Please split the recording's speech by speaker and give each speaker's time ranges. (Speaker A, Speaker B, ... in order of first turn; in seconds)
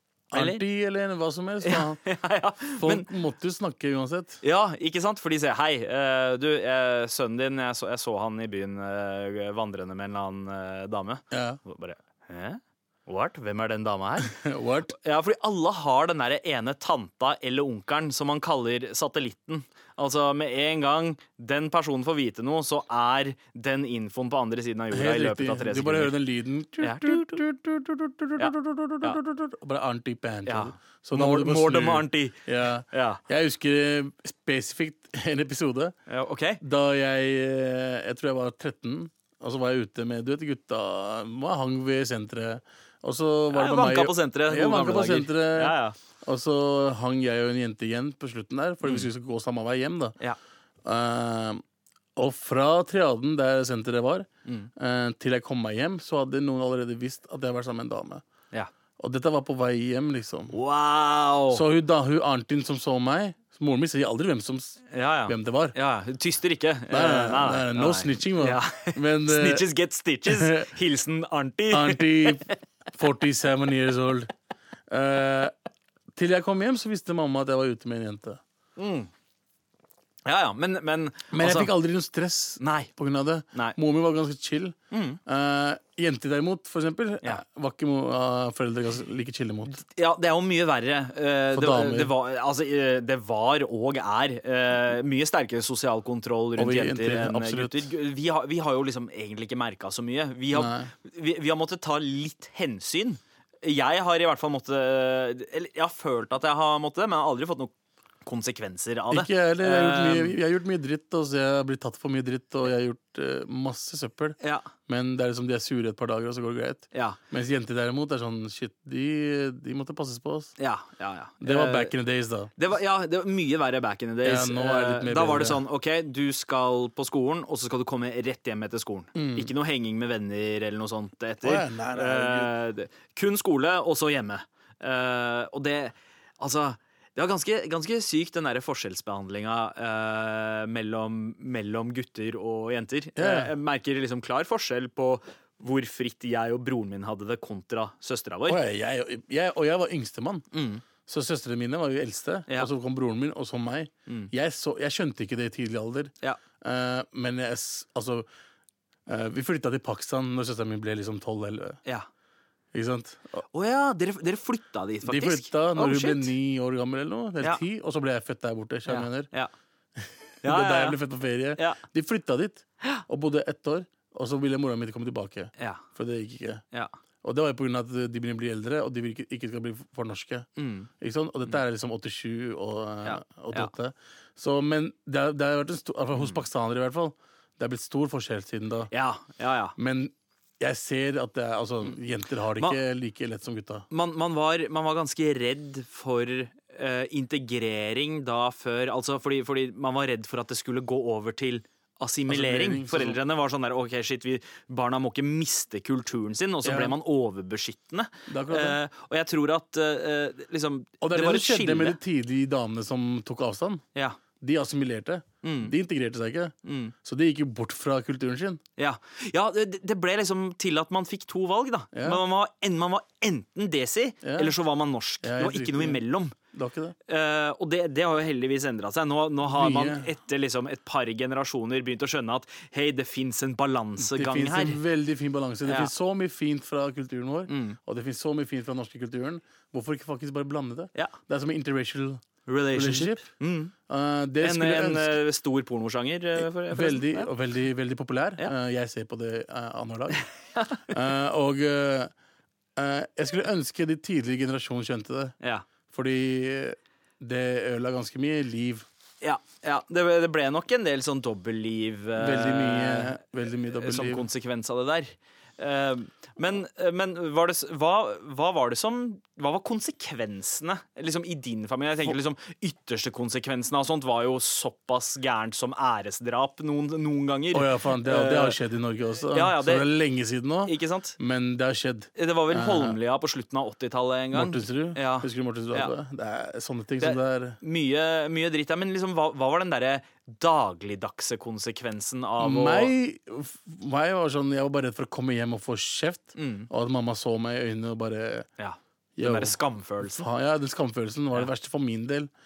Speaker A: 0.3-2.0, 2.8-4.4, 11.3-11.6, 14.2-14.9, 24.9-36.0, 36.6-50.2, 50.8-51.6, 52.2-58.2, 59.0-60.5, 61.5-65.8, 66.9-69.7, 70.2-70.7, 71.7-74.3, 74.9-75.5, 76.2-78.4, 81.3-89.8, 91.5-92.1, 96.6-97.9, 100.5-100.9, 109.1-120.5, 121.4-122.5, 124.2-125.6, 129.2-129.5, 131.4-132.5, 143.2-143.5, 148.5-150.5, 151.1-158.3, 159.1-161.8, 162.7-163.4, 165.0-169.3, 170.4-176.6, 177.2-180.5, 181.0-188.9, 189.8-193.8, 202.3-203.2, 206.6-206.9, 208.3-208.8, 211.0-213.8, 214.4-218.6, 221.9-222.2, 224.2-224.5, 225.2-226.0, 226.5-226.9, 229.4-230.1, 234.0-243.3, 243.9-245.2, 246.4-250.2, 250.9-252.1, 252.8-255.3, 255.9-258.9, 262.2-264.3, 277.5-283.0, 284.3-287.6, 292.4-298.5, 299.2-302.3
Speaker B: 0.3-0.6, 1.6-3.1, 4.4-14.4, 14.9-26.1, 26.8-27.4, 28.4-29.2, 30.5-33.2, 36.1-36.6, 43.5-46.0, 60.5-61.6, 64.9-72.5, 78.8-79.1, 80.3-81.7, 82.6-82.9, 84.9-85.2, 89.7-107.7, 108.2-110.4, 114.4-114.7, 116.9-117.2, 120.6-121.9, 122.6-148.6, 150.5-150.8, 163.5-166.3, 168.9-169.5, 170.4-171.0, 171.6-171.8, 175.6-175.8, 180.6-180.9, 183.0-183.7, 186.2-186.4, 188.9-189.8, 193.9-212.0, 215.4-215.8, 216.7-216.9, 218.8-226.3, 227.1-234.8, 235.7-235.9, 237.5-237.8, 242.5-243.7, 244.4-247.3, 250.2-250.9, 259.2-263.2, 263.7-278.6, 279.3-279.9, 280.7-281.2, 282.2-285.9, 287.0-292.9, 296.4-296.7, 298.6-300.2